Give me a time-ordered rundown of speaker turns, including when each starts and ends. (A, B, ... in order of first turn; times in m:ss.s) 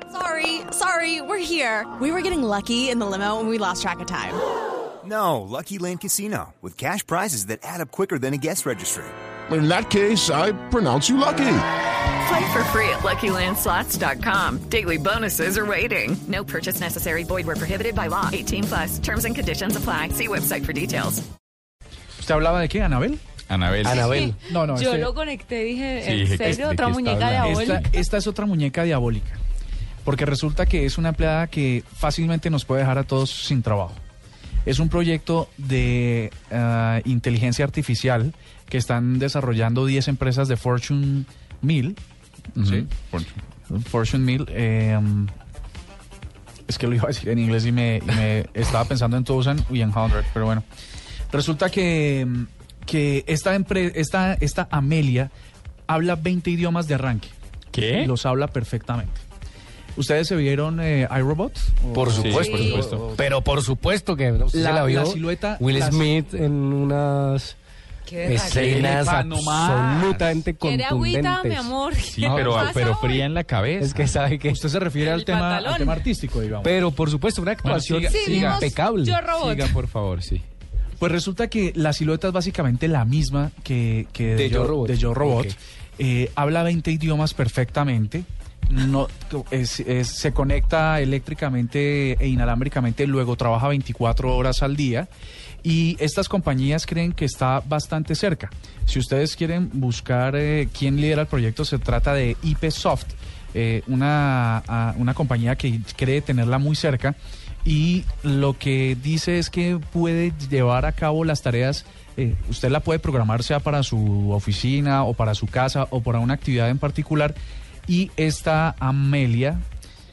0:00.1-0:04.4 A
0:05.0-0:09.1 B
0:09.5-0:11.7 C
0:12.2-0:21.2 D
0:22.2-0:23.2 E
0:23.5-0:24.2 F
0:23.8-0:24.4 G
0:23.8-0:28.0 H
0:24.4-0:25.1 E
0:26.0-0:27.9 F
0:27.4-0:29.4 E
0:30.0-0:34.0 E
0:34.6-0:42.0 E
0:42.5-0:42.9 E
0:42.6-0:43.4 F
0:43.7-0:45.3 E
0:46.7-0:50.6 E
0:51.3-0:55.3 E
0:55.9-0:57.3 E
0:57.7-0:58.1 F
0:58.0-0:59.2 E
1:00.0-1:02.9 E
1:01.9-1:07.6 G
1:02.2-1:03.0 F
1:02.2-1:02.9 H
1:04.5-1:06.1 E
1:08.1-1:09.0 H
1:08.2-1:11.7 G
1:08.3-1:10.4 F
1:10.6-1:13.3 H
1:12.1-1:14.1 F
1:12.3-1:12.7 E
1:13.8-1:14.6 G
1:14.5-1:16.8 E
1:15.0-1:16.0 H
1:16.6-1:18.0 G
1:17.6-1:18.6 E
1:18.0-1:18.7 F
1:18.1-1:19.8 H
1:18.6-1:19.2 G
1:19.3-1:20.4 F
1:21.0-1:35.1 E
1:24.3-1:25.6 G
1:35.6-1:59.6 E